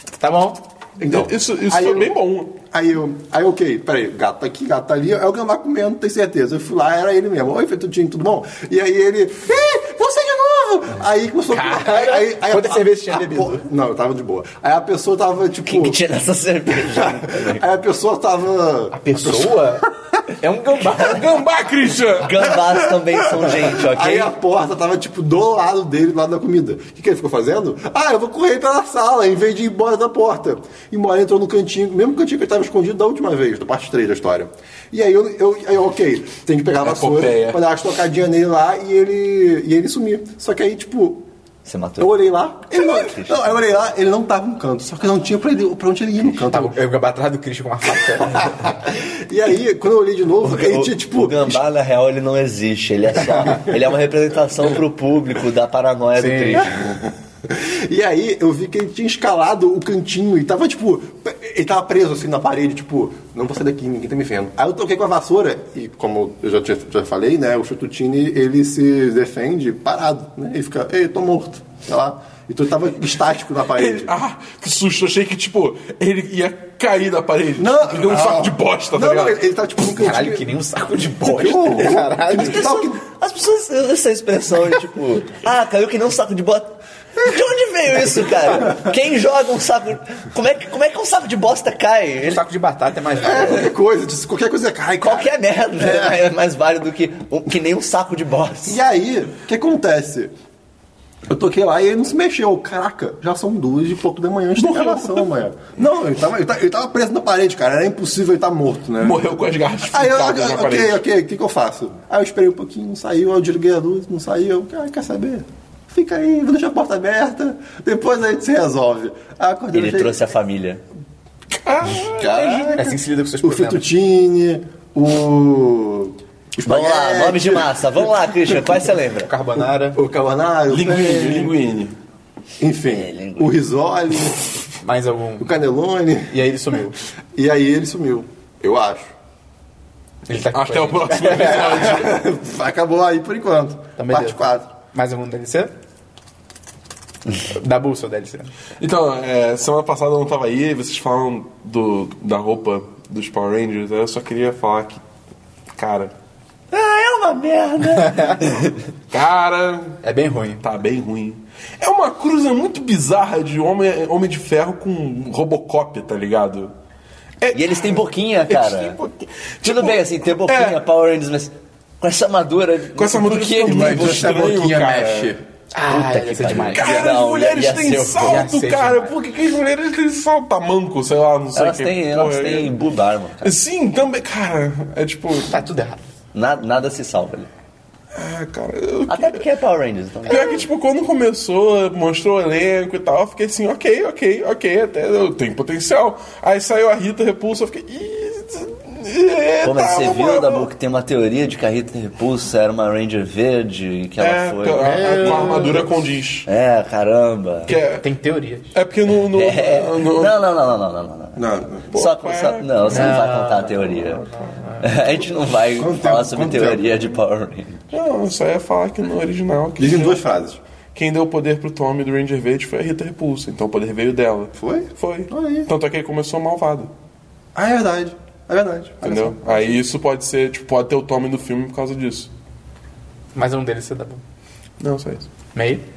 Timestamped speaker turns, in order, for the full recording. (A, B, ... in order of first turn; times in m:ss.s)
0:00.2-0:00.6 A
0:01.0-0:16.0 B
0:01.0-0:02.6 C
0:11.5-0:13.6 A
0:15.7-0:17.6 D
0:16.7-0:19.8 B
0:18.9-0:19.9 A
0:20.4-0:21.3 A
0:20.9-0:22.8 C
0:22.2-0:24.3 D
0:23.3-0:41.2 B
0:36.8-0:37.6 C
0:41.6-0:43.6 D
0:42.0-0:46.8 B
0:46.5-0:48.6 A
0:48.2-0:51.6 B
0:50.4-0:57.0 D
0:56.1-0:56.7 A
0:56.8-1:14.1 B
1:13.7-1:19.4 C
1:17.6-1:20.5 B
1:20.0-1:22.8 A
1:21.2-1:23.0 B
1:22.3-1:32.4 D
1:32.2-1:33.7 A
1:33.2-1:36.2 B
1:35.0-1:38.8 D
1:38.6-1:40.3 B
1:41.3-2:00.2 B
1:44.6-1:45.3 C
1:49.0-1:51.0 C
1:59.7-2:00.8 D
2:01.5-2:03.0 C
2:01.8-2:08.8 B
2:02.7-2:03.8 A
2:06.6-2:09.3 D
2:09.3-2:10.0 A
2:09.9-2:11.5 B
2:10.7-2:11.9 C
2:12.6-2:14.7 B
2:12.9-2:13.5 D
2:14.8-2:15.5 A
2:15.4-2:16.4 B
2:16.3-2:17.0 A
2:17.3-2:19.1 B
2:20.3-2:21.8 A
2:20.5-2:22.2 C
2:21.3-2:24.7 B
2:24.0-2:25.7 A
2:27.4-2:28.5 A
2:28.8-2:35.0 C
2:35.7-2:36.1 C
2:36.7-2:38.8 D
2:39.1-2:40.0 C
2:40.0-2:40.6 A
2:40.6-2:46.7 C
2:47.4-2:50.8 C
2:47.5-2:49.0 D
2:49.6-2:54.5 D
2:53.0-2:55.3 C
2:53.6-2:55.4 B
2:55.7-2:57.2 A
2:55.9-2:58.5 D
2:56.7-3:02.7 C
2:58.2-2:59.1 A
3:01.5-3:03.5 D
3:03.4-3:05.6 C
3:05.5-3:06.0 A
3:06.3-3:07.5 D
3:08.1-3:09.4 C
3:09.1-3:10.7 D
3:10.2-3:20.7 C
3:19.6-3:25.8 D
3:24.2-3:26.5 C
3:24.8-3:25.9 A
3:26.5-3:27.7 D
3:27.6-3:28.1 C
3:27.7-3:28.7 A
3:28.7-3:30.4 C
3:29.3-3:34.2 D
3:31.4-3:31.9 B
3:31.9-3:33.4 C
3:34.8-3:37.8 D
3:35.7-3:37.1 B
3:37.9-3:40.2 C
3:39.8-3:40.6 B
3:40.9-3:46.9 C
3:44.6-3:45.7 B
3:47.5-3:49.8 B
3:49.0-3:52.3 C
3:53.3-3:54.2 A
3:54.8-3:55.3 C
3:55.5-3:55.8 A